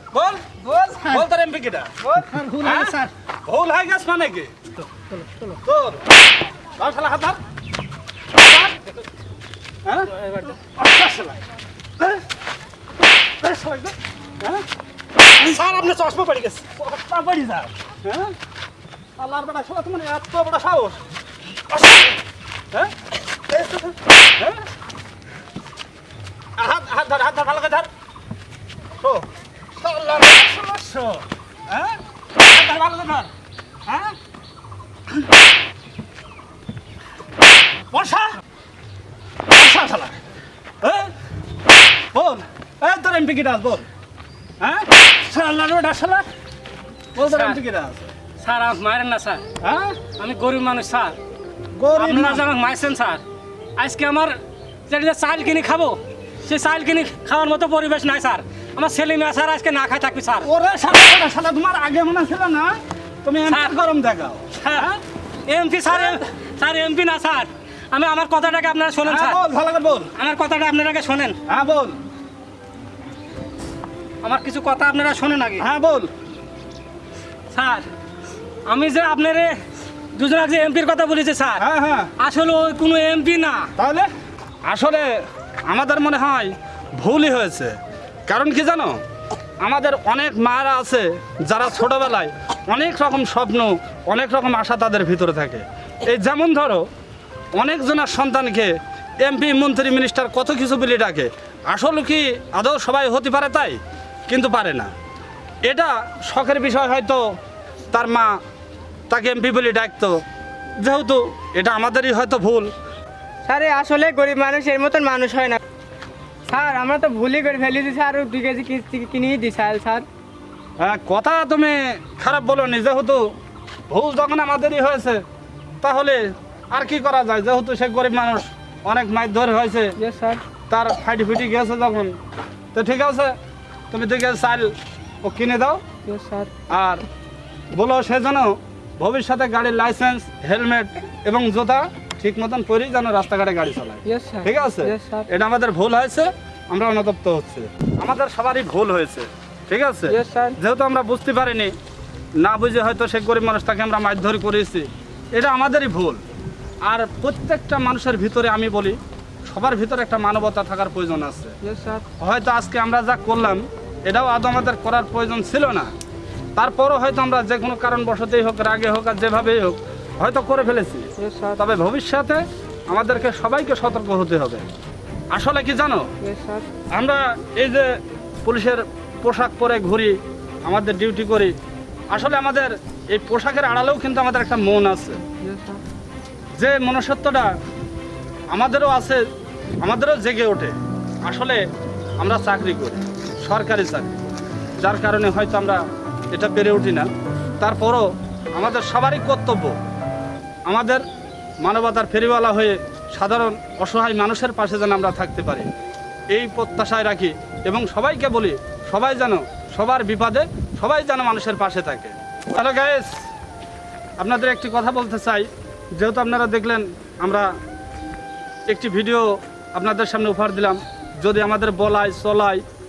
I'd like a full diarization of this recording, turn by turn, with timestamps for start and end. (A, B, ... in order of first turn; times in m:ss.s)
0:00.1-0:00.5 A
0:00.6-0:01.2 B
0:01.1-0:01.9 A
0:02.0-0:03.0 B
0:02.6-0:04.5 A
0:05.6-0:06.1 A
0:06.8-0:07.4 A
0:08.3-0:08.8 A
0:09.8-0:11.4 A
0:13.4-0:14.6 A
0:15.4-0:18.3 A
0:19.2-0:21.0 A
0:21.7-0:22.2 A
0:23.5-0:24.6 A
0:26.6-0:27.9 A
0:29.0-0:33.3 A
0:33.9-0:34.1 A
0:37.9-0:38.3 A
0:39.5-0:40.2 A
0:40.8-0:41.1 A
0:42.1-0:43.9 A
0:44.6-0:46.2 A
0:47.1-0:48.1 A
0:47.3-0:47.6 C
0:48.4-0:49.4 C
0:49.6-0:50.0 A
0:50.1-0:51.2 C
0:51.8-0:52.4 A
0:51.9-0:53.2 C
0:53.8-0:54.3 C
0:54.9-1:00.5 C
1:00.4-1:05.0 A
1:03.5-1:03.7 C
1:04.6-1:04.9 C
1:05.5-1:09.4 C
1:05.9-1:06.2 A
1:09.0-1:10.1 A
1:10.1-1:11.4 C
1:11.5-1:12.0 A
1:14.2-1:15.7 C
1:15.6-1:16.1 A
1:17.5-1:17.8 C
1:18.7-1:19.6 C
1:20.2-1:21.6 C
1:21.6-1:22.1 A
1:22.2-1:23.7 C
1:23.8-1:24.1 A
1:24.6-1:25.1 A
1:25.7-1:27.7 A
1:28.3-1:29.0 A
1:29.6-1:36.8 A
1:37.5-1:44.9 A
1:45.6-1:47.2 A
1:47.9-1:48.4 A
1:49.1-1:50.2 A
1:50.8-1:52.7 A
1:53.4-1:55.6 B
1:56.4-2:00.1 B
2:00.8-2:03.3 A
2:03.9-2:05.2 A
2:05.8-2:09.9 A
2:10.0-2:10.4 B
2:10.7-2:12.1 A
2:12.7-2:13.3 A
2:13.9-2:15.8 A
2:16.0-2:16.5 B
2:16.7-2:17.0 A
2:17.7-2:31.7 A
2:24.0-2:25.3 B
2:30.1-2:30.6 B
2:32.4-2:36.2 A
2:36.8-2:41.5 A
2:41.6-2:42.0 B
2:42.2-2:45.9 A
2:46.6-2:54.6 A
2:51.2-2:51.6 B
2:55.3-2:56.1 A
2:56.2-2:56.7 B
2:56.9-3:01.6 A
3:02.1-3:05.2 A
3:05.4-3:05.8 B
3:06.6-3:07.6 A
3:08.5-3:09.2 A
3:09.8-3:11.6 A
3:12.2-3:17.1 A
3:17.6-3:19.8 A
3:20.7-3:21.0 A
3:21.6-3:25.7 A
3:26.3-3:33.1 A
3:34.2-3:37.5 A
3:38.7-3:42.6 A